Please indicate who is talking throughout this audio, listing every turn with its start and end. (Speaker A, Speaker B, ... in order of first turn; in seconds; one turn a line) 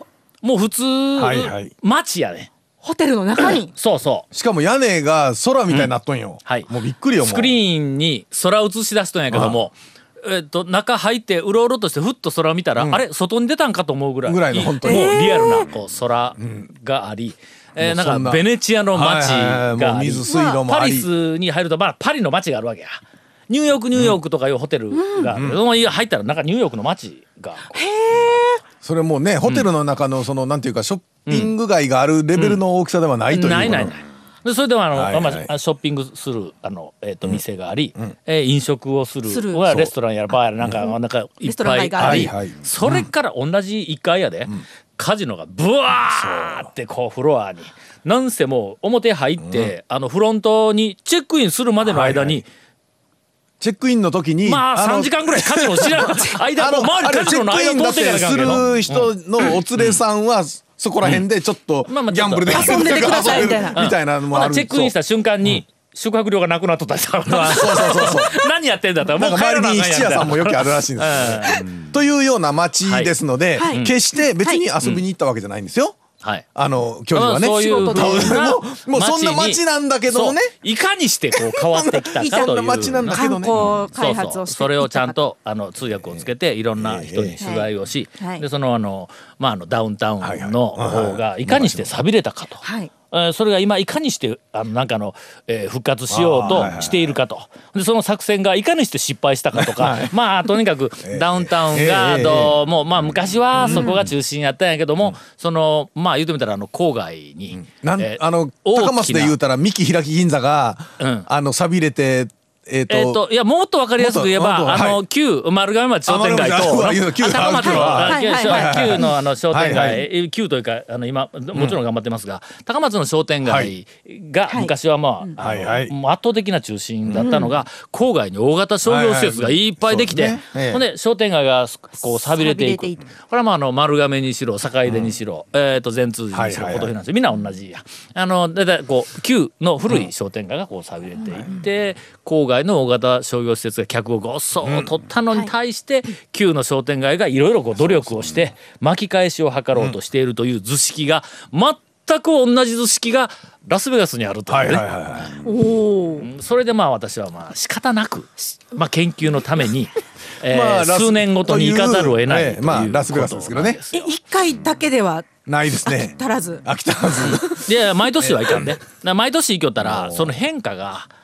Speaker A: 0.4-2.5
Speaker B: 1.2-1.7
Speaker C: 2.8-3.7
Speaker A: 3.7-4.2
Speaker B: 4.3-7.6
Speaker A: 6.4-27.8
Speaker B: 9.3-9.6
Speaker B: 12.8-13.0
Speaker B: 14.2-15.5
Speaker C: 14.8-15.7
Speaker B: 16.4-16.7
Speaker B: 17.8-21.1
Speaker C: 20.2-20.6
Speaker B: 23.9-24.2
Speaker C: 24.9-25.3
Speaker B: 25.2-25.6
Speaker C: 27.7-28.6
Speaker B: 28.8-33.9
Speaker A: 31.2-31.5
Speaker A: 32.3-32.6
Speaker A: 33.3-52.5
Speaker B: 34.9-35.5
Speaker C: 39.3-39.6
Speaker B: 39.6-39.9
Speaker C: 41.4-42.3
Speaker B: 42.0-43.1
Speaker B: 46.0-46.7
Speaker B: 49.4-49.7
Speaker B: 51.8-52.4
Speaker B: 53.6-64.9
Speaker A: 54.4-59.1
Speaker A: 59.8-60.0
Speaker A: 61.9-71.6
Speaker C: 62.5-63.8
Speaker B: 67.3-68.5
Speaker B: 69.1-76.0
Speaker A: 72.8-73.1
Speaker C: 73.5-73.8
Speaker A: 73.7-74.0
Speaker C: 74.4-74.6
Speaker B: 76.5-80.5
Speaker A: 77.1-109.3
Speaker C: 77.5-78.4
Speaker B: 81.3-83.7
Speaker C: 82.2-85.2
Speaker B: 86.8-87.4
Speaker C: 87.4-87.7
Speaker C: 88.2-88.4
Speaker B: 90.2-91.9
Speaker C: 92.6-92.9
Speaker B: 96.1-97.2
Speaker B: 99.5-100.1
Speaker B: 101.0-102.6
Speaker B: 103.5-104.1
Speaker B: 107.5-113.2
Speaker A: 111.0-111.3
Speaker A: 112.9-155.3
Speaker B: 114.0-115.0
Speaker B: 116.0-120.0
Speaker C: 117.6-119.1
Speaker B: 123.4-123.7
Speaker C: 124.5-125.3
Speaker B: 125.4-125.9
Speaker B: 127.0-127.3
Speaker C: 127.2-127.5
Speaker B: 128.8-130.8
Speaker C: 132.1-133.1
Speaker B: 134.8-135.1
Speaker B: 136.3-136.9
Speaker B: 144.6-144.9
Speaker B: 154.5-155.3
Speaker C: 155.4-156.3
Speaker A: 156.2-164.1
Speaker B: 160.4-163.8
Speaker C: 163.9-165.3
Speaker B: 165.4-168.8
Speaker C: 165.8-166.6
Speaker A: 167.5-171.1
Speaker B: 169.8-170.4